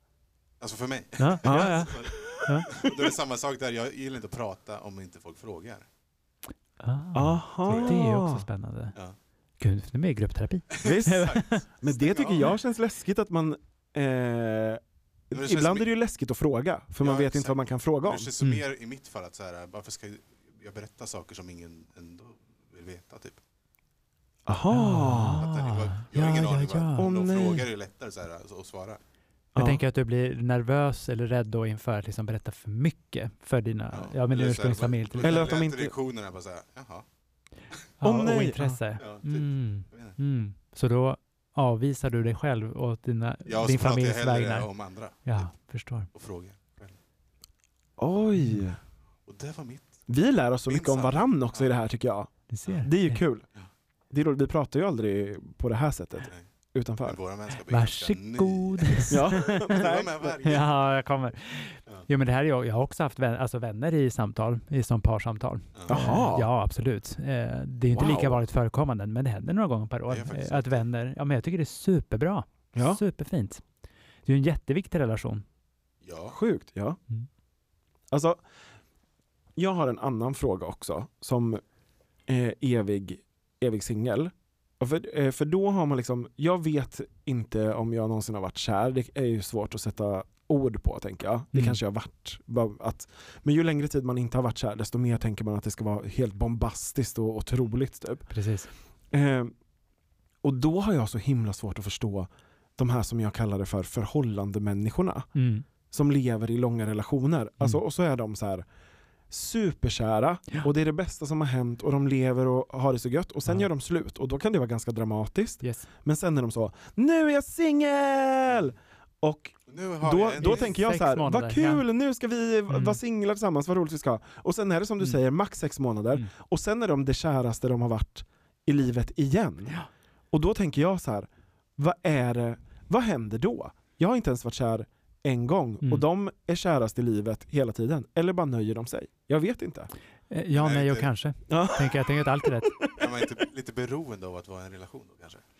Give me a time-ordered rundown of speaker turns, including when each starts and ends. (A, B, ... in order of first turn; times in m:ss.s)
0:00.6-0:05.8 A
0:01.2-0:02.7 B
0:01.4-0:02.9 C
0:06.8-0:09.0 B
0:07.1-0:08.4 C
0:07.6-0:08.0 A
0:09.6-0:11.6 B
0:10.7-0:12.5 A
0:10.8-0:18.3 C
0:15.3-0:15.9 A
0:17.0-0:23.4 A
0:24.4-0:25.4 C
0:24.7-0:27.1 B
0:25.4-0:29.0 A
0:27.0-0:27.6 C
0:29.5-0:29.8 C
0:29.6-0:35.5 B
0:33.9-0:37.0 A
0:35.2-0:35.9 C
0:38.0-0:44.7 B
0:38.0-0:38.8 C
0:39.0-0:40.2 A
0:43.5-0:45.5 A
0:45.2-0:46.1 B
0:46.1-0:46.9 A
0:48.0-0:48.8 C
0:49.3-0:50.1 A
0:50.1-0:53.4 C
0:50.7-0:51.7 A
0:52.5-0:53.2 B
0:54.1-0:57.2 C
0:57.0-1:00.7 A
0:57.7-0:59.9 B
0:59.1-1:00.4 C
1:00.4-1:13.6 B
1:05.7-1:06.1 A
1:05.9-1:06.5 C
1:07.9-1:08.4 C
1:10.1-1:10.8 A
1:12.7-1:13.0 C
1:14.2-1:15.4 B
1:16.0-1:16.4 A
1:16.3-1:17.0 C
1:18.1-1:18.4 C
1:19.6-1:21.6 C
1:22.3-1:38.3 C
1:31.5-1:31.8 B
1:38.3-1:38.7 B
1:39.1-1:39.5 C
1:40.4-1:45.3 C
1:45.3-1:45.6 B
1:45.9-1:48.6 C
1:49.3-2:09.8 C
1:59.7-2:00.7 A
2:00.4-2:01.8 B
2:02.7-2:03.0 B
2:10.3-2:19.9 C
2:20.3-2:22.9 B
2:20.5-2:21.1 A
2:21.5-2:23.0 C
2:23.0-2:25.4 A